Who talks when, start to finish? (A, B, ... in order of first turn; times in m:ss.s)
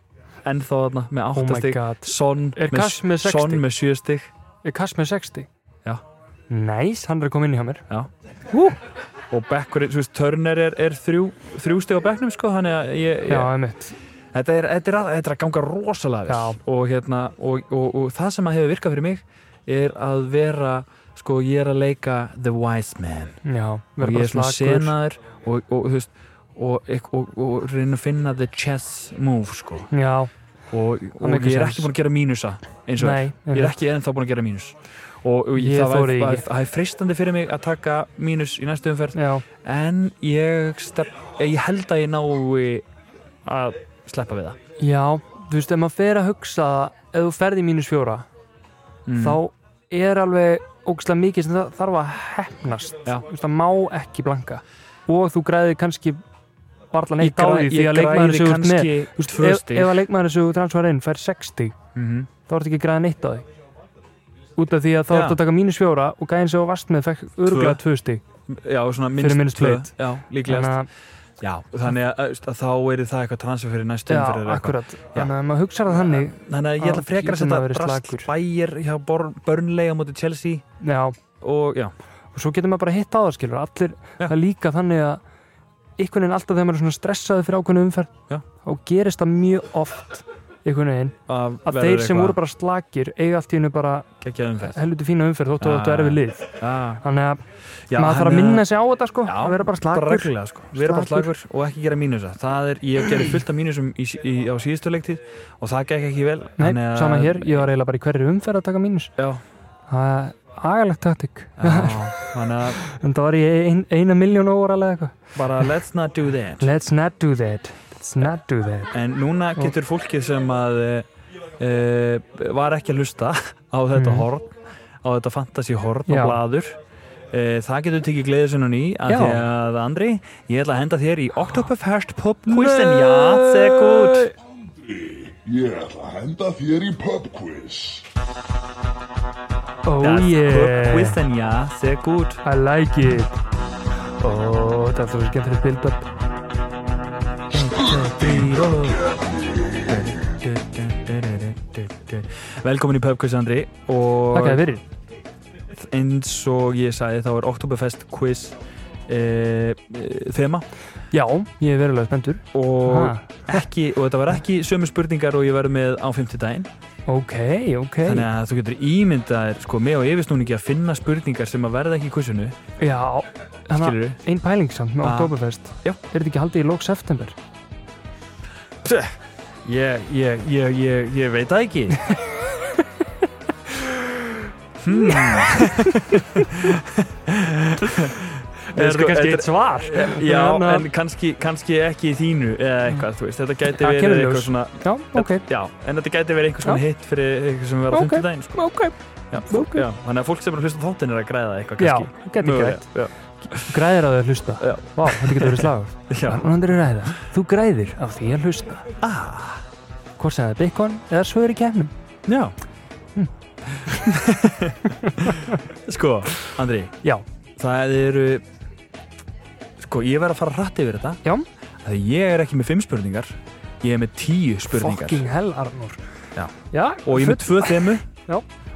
0:00.4-0:04.3 A
0:01.4-0:03.6 B
0:04.6-0:05.5 B
0:06.5-0:07.9 B
0:08.5-0:08.8 B
0:09.3-0:13.5 A
0:13.3-0:14.0 B
0:14.3-0:23.4 A
0:16.3-0:16.6 B
0:23.4-0:25.0 B
0:24.0-0:29.9 A
0:29.9-0:30.3 B
0:30.7-0:42.8 A
0:31.2-0:31.9 B
0:33.0-0:33.7 B
0:35.6-0:36.4 B
0:39.1-0:39.4 B
0:43.4-0:44.6 A
0:44.8-0:48.3 B
0:49.0-0:49.4 A
0:49.2-0:56.2 B
0:56.9-1:01.8 B
0:57.2-1:00.0 A
1:02.0-1:02.3 A
1:02.5-1:03.4 B
1:04.6-1:08.2 B
1:05.1-1:05.4 A
1:07.4-1:07.8 A
1:08.5-1:10.9 A
1:09.2-1:10.9 B
1:11.4-1:15.3 A
1:14.1-1:18.3 B
1:16.0-1:20.6 A
1:20.8-1:21.2 B
1:21.4-1:21.9 A
1:22.3-1:25.2 B
1:26.0-1:34.1 B
1:31.3-1:32.4 A
1:34.2-1:34.8 A
1:34.6-1:37.4 B
1:35.6-1:37.0 A
1:37.9-1:38.7 A
1:37.9-1:41.3 B
1:39.2-1:47.7 A
1:46.6-1:49.1 B
1:49.2-1:49.4 A
1:49.9-1:55.6 B
1:51.6-1:52.8 A
1:55.4-1:56.7 A
1:56.6-1:58.9 B
1:58.9-2:01.1 A
2:01.6-2:06.8 A
2:04.0-2:04.3 B
2:06.1-2:06.4 B
2:07.3-2:14.3 A
2:09.1-2:09.4 B
2:12.5-2:14.3 B
2:14.7-2:18.0 C
2:19.8-2:21.2 B
2:20.0-2:22.4 A
2:22.4-2:23.4 B
2:24.2-2:26.0 B
2:27.5-2:28.2 B
2:27.5-2:29.0 A
2:29.1-2:29.8 C
2:29.9-2:34.6 A
2:34.3-2:34.8 B
2:35.7-2:40.7 A
2:41.1-2:43.6 B
2:42.5-2:46.7 A
2:47.1-2:48.3 B
2:48.0-2:52.6 A
2:52.8-2:57.4 B
2:53.8-2:54.2 A
2:55.0-2:56.0 A
2:58.8-3:02.0 A
3:03.7-3:04.2 B
3:04.8-3:18.8 A
3:04.9-3:06.7 B
3:08.7-3:10.9 B
3:13.7-3:15.4 B
3:17.9-3:19.9 B
3:19.3-3:23.8 A
3:21.8-3:22.9 B
3:23.4-3:28.8 B
3:24.6-3:26.4 A
3:29.0-3:29.6 A
3:30.2-3:31.9 B
3:32.3-3:32.6 A
3:33.7-3:37.0 A
3:35.0-3:35.5 B
3:37.6-3:38.4 A
3:39.8-3:41.2 A
3:41.8-3:45.2 A
3:44.7-3:46.0 B
3:46.4-3:48.0 A
3:46.7-3:48.4 B